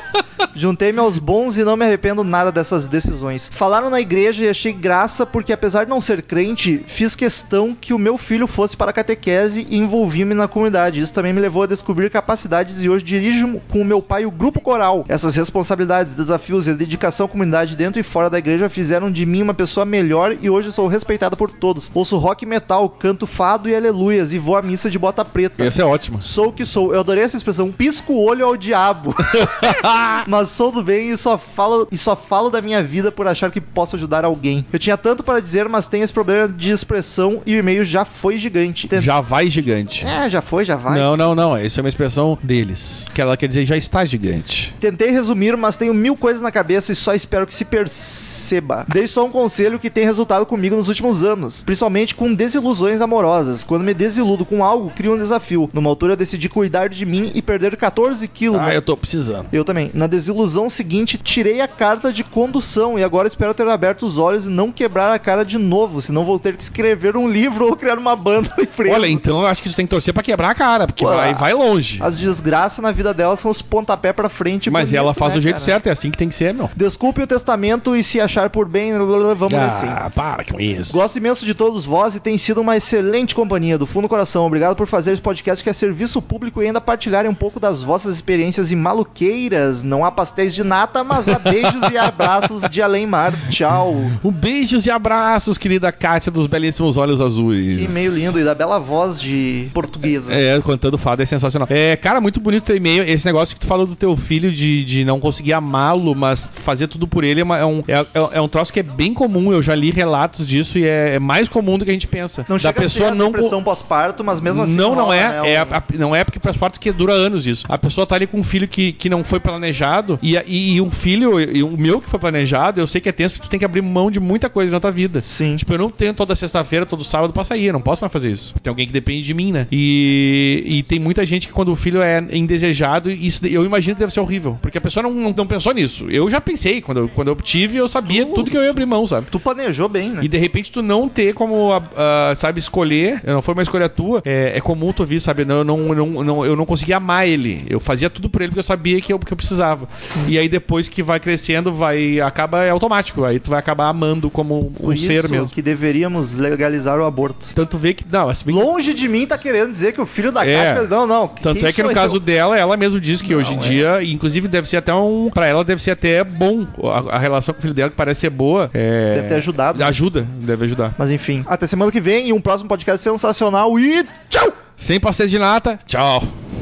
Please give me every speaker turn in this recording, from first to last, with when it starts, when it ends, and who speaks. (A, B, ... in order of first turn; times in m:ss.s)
0:00.5-0:39.1 A
0:25.6-0:26.2 B
0:29.3-0:30.2 B
0:38.9-0:40.1 B
0:40.0-0:41.1 A
0:40.9-0:44.7 B
0:44.8-0:58.8 A
0:58.5-0:59.5 B
0:59.5-1:09.2 A
1:08.8-1:12.1 B
1:11.0-1:11.4 A
1:12.0-1:15.8 A
1:14.7-1:16.7 B
1:16.8-1:20.0 A
1:19.5-1:21.0 B
1:20.9-1:34.1 A
1:34.2-1:38.3 B
1:37.7-1:40.4 A
1:40.2-1:53.6 B
1:52.5-1:55.8 A
1:54.5-2:19.3 B
2:05.2-2:05.6 A
2:18.1-2:20.3 A
2:20.2-2:35.5 B
2:34.8-2:37.5 A
2:37.5-2:38.7 B
2:38.5-2:42.2 A
2:40.4-2:40.9 B
2:41.4-2:51.0 B
2:43.2-2:43.9 A
2:49.1-2:50.1 A
2:51.0-2:54.6 A
2:54.8-2:56.3 B